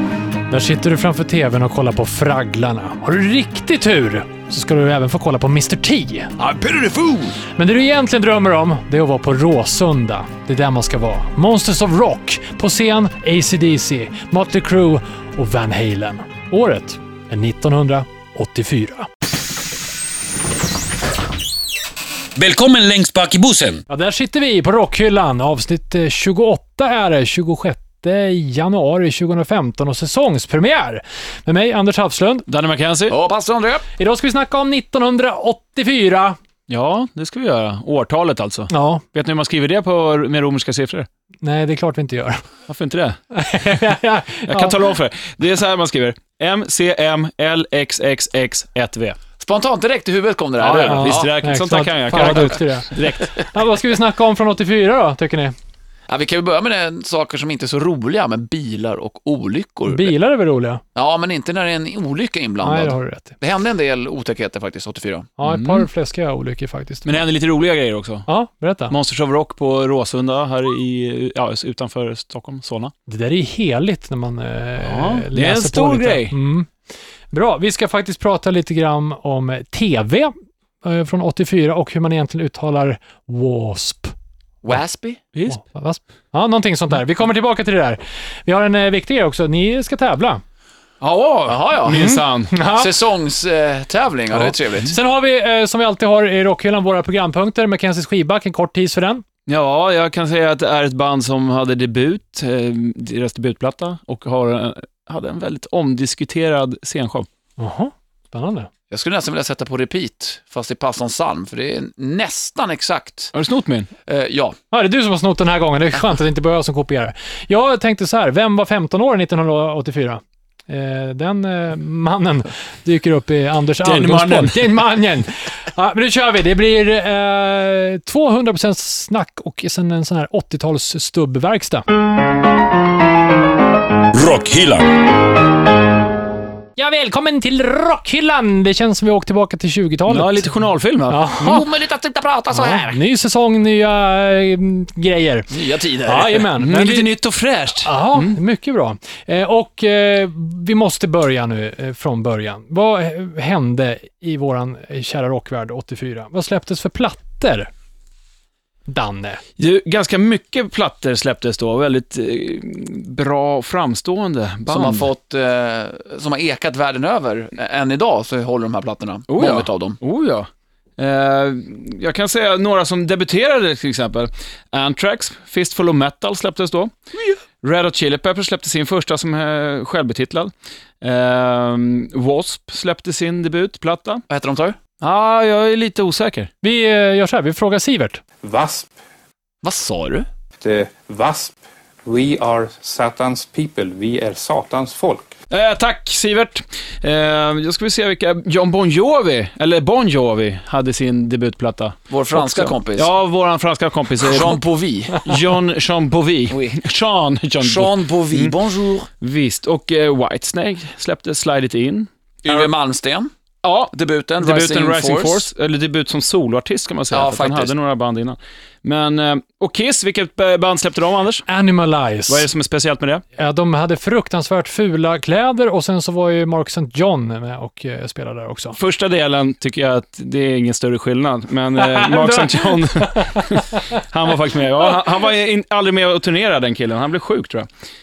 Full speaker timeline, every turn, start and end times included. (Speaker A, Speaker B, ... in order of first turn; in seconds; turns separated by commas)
Speaker A: 0.5-6.3, Speaker B: 6.4-7.4, Speaker A: 7.5-19.1, Speaker C: 22.4-23.8, Speaker A: 23.9-32.5, Speaker D: 32.5-33.2, Speaker B: 33.1-33.8, Speaker A: 34.0-36.4, Speaker D: 36.7-41.1, Speaker A: 38.7-39.0, Speaker A: 41.4-42.4, Speaker D: 42.7-43.2, Speaker A: 43.3-44.8, Speaker D: 44.5-49.2, Speaker B: 49.4-51.3, Speaker D: 50.6-53.3, Speaker A: 50.9-55.5, Speaker B: 56.1-60.1, Speaker A: 59.9-60.8, Speaker B: 60.9-65.3, Speaker A: 62.6-63.4, Speaker A: 65.4-67.2, Speaker D: 65.5-65.8, Speaker D: 67.0-68.3, Speaker A: 68.3-68.9, Speaker D: 68.9-72.9, Speaker A: 73.1-76.7, Speaker D: 74.8-76.3, Speaker A: 77.3-84.1, Speaker B: 84.6-85.2, Speaker D: 85.3-85.6, Speaker A: 85.5-90.4, Speaker D: 91.0-92.5, Speaker B: 91.5-92.1, Speaker A: 91.9-92.9, Speaker B: 92.6-95.0, Speaker A: 94.3-99.2, Speaker D: 99.5-107.3, Speaker A: 107.6-108.7, Speaker B: 108.9-113.3, Speaker D: 113.3-113.9, Speaker B: 114.1-114.6, Speaker A: 114.7-131.8, Speaker D: 123.8-124.6, Speaker C: 134.1-134.9, Speaker A: 136.8-140.5, Speaker D: 140.1-141.3, Speaker A: 141.1-141.7, Speaker B: 141.4-143.0, Speaker A: 142.5-147.1, Speaker B: 145.5-146.5, Speaker D: 146.6-148.4, Speaker A: 147.8-157.7, Speaker A: 158.9-159.4, Speaker D: 159.6-165.1, Speaker B: 164.7-170.0, Speaker D: 169.3-176.9, Speaker D: 177.6-184.2, Speaker B: 184.3-184.8, Speaker D: 185.0-186.5, Speaker A: 186.6-188.2, Speaker E: 188.4-188.9, Speaker B: 189.6-190.3, Speaker E: 190.6-195.3, Speaker D: 195.5-204.6, Speaker B: 202.1-203.1, Speaker B: 204.2-205.3, Speaker D: 205.2-208.5, Speaker B: 206.5-206.8, Speaker B: 207.6-209.1, Speaker D: 209.2-212.7, Speaker B: 212.4-213.3, Speaker D: 213.6-221.4, Speaker B: 213.9-215.4, Speaker B: 217.1-217.7, Speaker A: 221.5-222.5, Speaker D: 222.3-223.2, Speaker A: 223.4-228.8, Speaker D: 228.8-237.7, Speaker A: 231.8-233.8